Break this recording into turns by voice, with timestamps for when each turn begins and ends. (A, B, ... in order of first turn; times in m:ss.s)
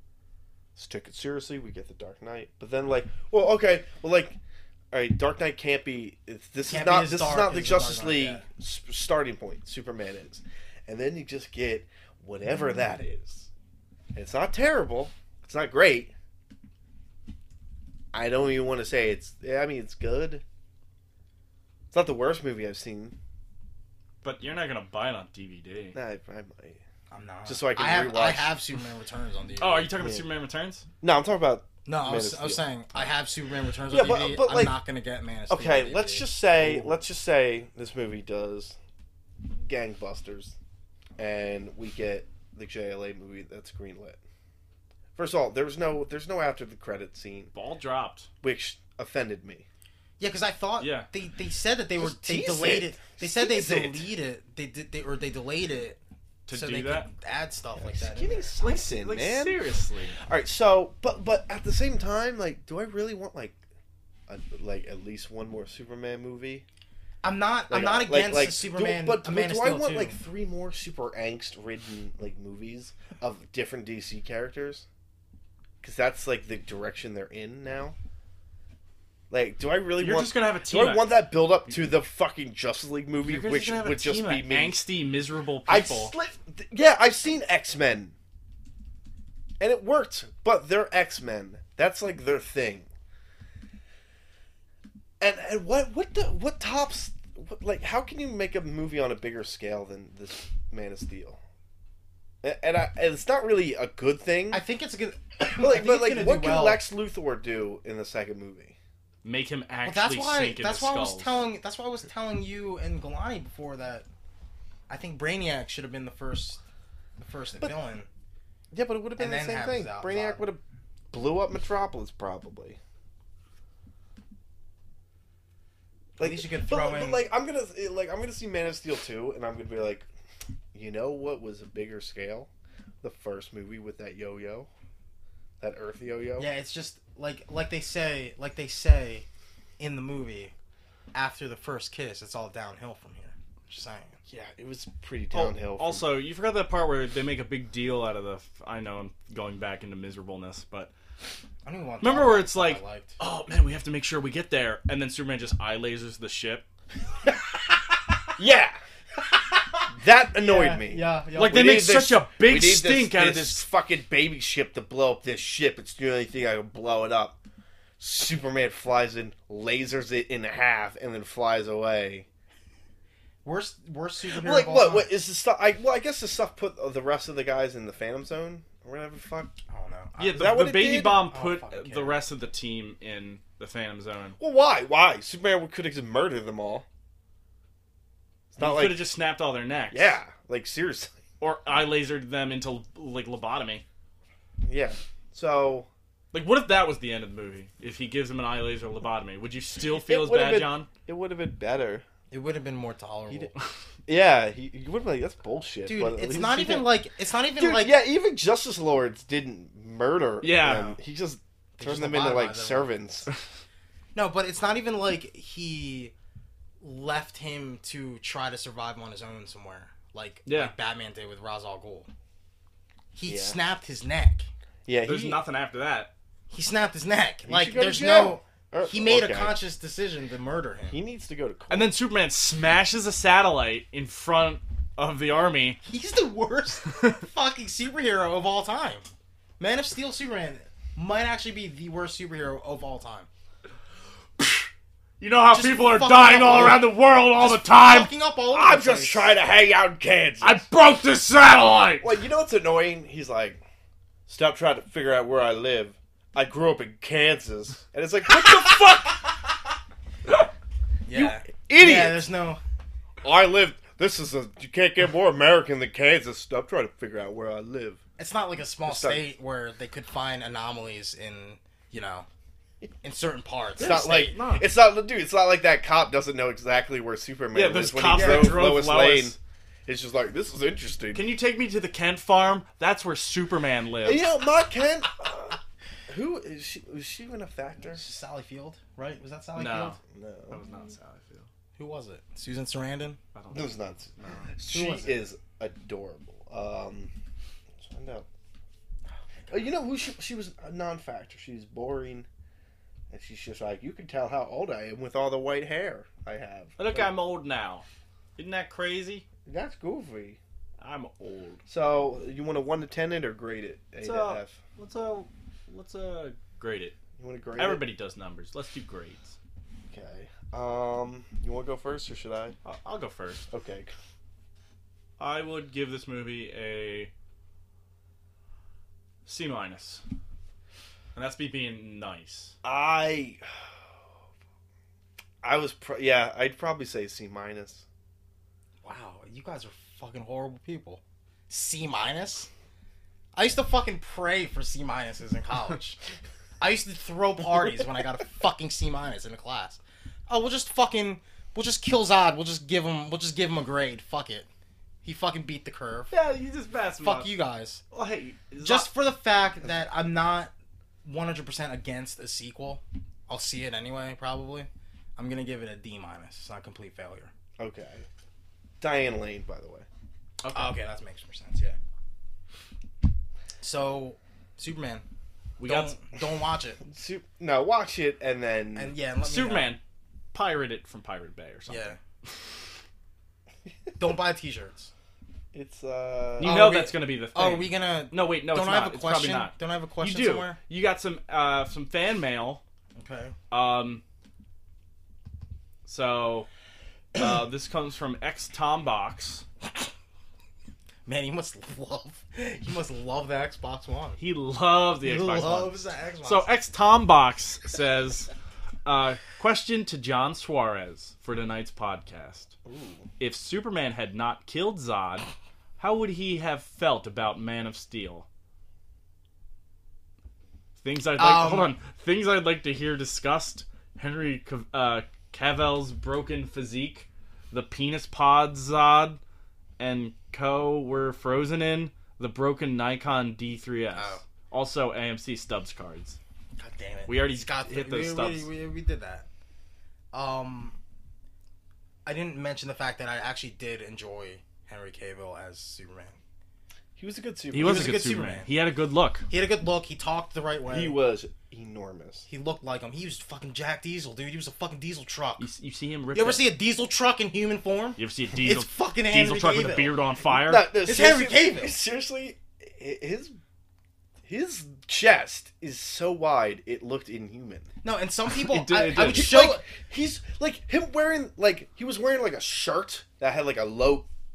0:00.8-0:04.4 A
0:04.9-0:13.5 A
0:06.7-0:08.4 B
0:14.1-0:16.1 A
0:18.1-0:20.4 A
0:21.9-0:23.2 A
0:24.2-0:26.0 C
0:26.0-0:26.8 A
0:27.1-0:30.0 B
0:27.5-0:28.6 A
0:29.6-0:30.9 C
0:31.0-0:33.1 A
0:31.8-0:36.9 B
0:33.9-0:34.8 A
0:35.5-0:38.8 A
0:39.5-0:40.6 A
0:41.2-0:44.2 A
0:45.2-0:47.5 A
0:47.5-0:48.3 C
0:48.4-0:49.7 A
0:50.2-0:56.0 B
0:50.8-0:51.1 C
0:52.0-0:54.0 A
0:56.5-0:57.1 C
0:56.5-0:58.6 B
0:57.8-0:59.6 A
0:58.6-1:00.2 C
1:00.2-1:03.6 A
1:04.3-1:06.6 A
1:07.2-1:10.2 B
1:07.7-1:14.9 A
1:15.8-1:18.0 A
1:19.3-1:24.8 A
1:20.0-1:21.1 C
1:23.2-1:26.1 C
1:25.7-1:28.1 A
1:29.6-1:32.9 A
1:35.2-1:41.4 A
1:42.4-1:44.6 A
1:44.5-1:46.8 B
1:45.4-1:48.8 A
1:49.2-1:51.4 C
1:49.8-1:54.1 B
1:54.9-1:56.6 B
1:57.2-1:58.1 B
1:58.7-2:00.6 A
1:59.2-2:00.4 B
2:01.1-2:02.8 A
2:06.2-2:10.1 A
2:06.2-2:07.2 B
2:10.7-2:12.5 A
2:13.0-2:14.7 A
2:15.6-2:16.5 A
2:16.4-2:19.3 B
2:19.8-2:20.5 B
2:21.1-2:24.2 B
2:24.3-2:26.1 A
2:25.3-2:30.9 C
2:31.6-2:33.2 B
2:32.0-2:36.7 C
2:38.4-2:38.8 A
2:39.9-2:47.4 A
2:40.4-2:41.8 B
2:41.4-2:43.6 C
2:48.0-2:52.3 A
2:53.4-2:55.1 B
2:54.3-2:59.5 A
2:59.7-3:02.2 B
3:00.2-3:04.4 C
3:00.3-3:01.3 A
3:04.4-3:06.8 A
3:08.5-3:09.1 A
3:08.6-3:10.2 C
3:09.9-3:11.2 A
3:11.4-3:13.8 C
3:14.6-3:15.9 A
3:16.3-3:20.9 C
3:19.9-3:22.0 A
3:22.3-3:23.5 B
3:24.1-3:26.9 A
3:25.9-3:28.0 B
3:27.6-3:33.3 A
3:30.4-3:31.0 C
3:31.8-3:33.1 B
3:34.2-3:36.1 B
3:36.8-3:42.1 B
3:40.5-3:40.7 C
3:43.1-3:44.5 B
3:43.3-3:43.6 A
3:44.9-3:45.4 A
3:45.1-3:46.1 C
3:46.5-3:51.0 B
3:47.4-3:49.6 A
3:50.9-3:51.9 A
3:51.7-3:55.8 C
3:55.8-3:59.1 B
3:59.6-4:03.3 B
4:04.4-4:04.7 C
4:05.2-4:08.1 C
4:05.5-4:09.3 B
4:08.5-4:10.6 A
4:10.4-4:12.2 C
4:12.0-4:13.6 A
4:14.3-4:19.3 A
4:21.1-4:22.6 B
4:21.1-4:22.3 A
4:23.2-4:28.0 A
4:28.2-4:32.3 B
4:28.9-4:29.2 A
4:33.0-4:34.4 B
4:33.8-4:34.7 C
4:33.8-4:41.3 A
4:37.5-4:39.4 C
4:38.1-4:38.6 B
4:41.1-4:44.3 C
4:44.0-4:48.0 A
4:47.8-4:50.0 B
4:49.6-4:50.0 C
4:50.0-4:50.6 A
4:50.5-4:51.5 C
4:51.8-4:53.2 B
4:53.3-4:54.5 C
4:53.5-4:57.1 A
4:54.7-4:55.2 B
4:57.8-4:58.3 A
4:59.5-5:02.3 A
5:03.1-5:07.1 A
5:06.8-5:07.8 C
5:08.4-5:09.2 C
5:09.5-5:10.4 A
5:10.8-5:11.6 C
5:11.7-5:14.6 A
5:14.0-5:17.0 C
5:17.2-5:17.8 A
5:17.6-5:19.4 C
5:19.9-5:22.6 A
5:22.6-5:23.5 C
5:23.5-5:23.9 A
5:25.2-5:27.1 C
5:29.2-5:30.0 C
5:31.2-5:32.6 C
5:32.6-5:33.7 A
5:35.4-5:37.8 A
5:38.8-5:42.5 B
5:43.4-5:46.0 B
5:46.6-5:54.5 B
5:55.0-5:56.1 B
5:56.1-5:57.3 C
5:57.0-5:57.8 B
5:57.9-5:58.9 C
5:58.6-6:00.5 B
6:01.0-6:07.3 B
6:07.6-6:08.0 A
6:08.8-6:09.9 A
6:10.4-6:10.8 C
6:10.5-6:11.8 B
6:13.6-6:15.0 B
6:15.6-6:16.0 C
6:15.6-6:16.8 B
6:16.9-6:18.9 A
6:18.8-6:19.8 B
6:19.2-6:19.8 C
6:20.3-6:22.0 C
6:21.7-6:22.0 B
6:24.0-6:24.9 B
6:25.5-6:26.6 A
6:26.4-6:32.6 C
6:26.4-6:30.6 B
6:33.0-6:33.4 B
6:33.5-6:34.0 C
6:35.9-6:36.5 C
6:37.1-6:39.4 C
6:41.1-6:44.2 B
6:44.2-6:48.3 C
6:45.0-6:46.5 B
6:48.8-6:52.6 C
6:52.7-6:53.0 A
6:53.2-6:55.3 C
6:55.8-6:58.3 C
7:00.8-7:09.2 C
7:01.2-7:01.7 B
7:09.8-7:16.2 C
7:13.9-7:14.2 B
7:16.6-7:19.3 B
7:17.1-7:18.5 C
7:20.1-7:20.8 B
7:22.0-7:26.2 B
7:27.0-7:28.0 A
7:27.5-7:29.3 C
7:27.5-7:28.5 B
7:29.3-7:31.0 B
7:30.7-7:32.3 A
7:32.3-7:35.5 B
7:35.4-7:36.5 C
7:36.1-7:40.0 B
7:38.0-7:40.7 C
7:40.2-7:43.4 A
7:40.8-7:41.8 B
7:44.2-7:47.7 A
7:47.8-7:49.6 B
7:48.5-7:54.1 A
7:48.7-7:49.3 C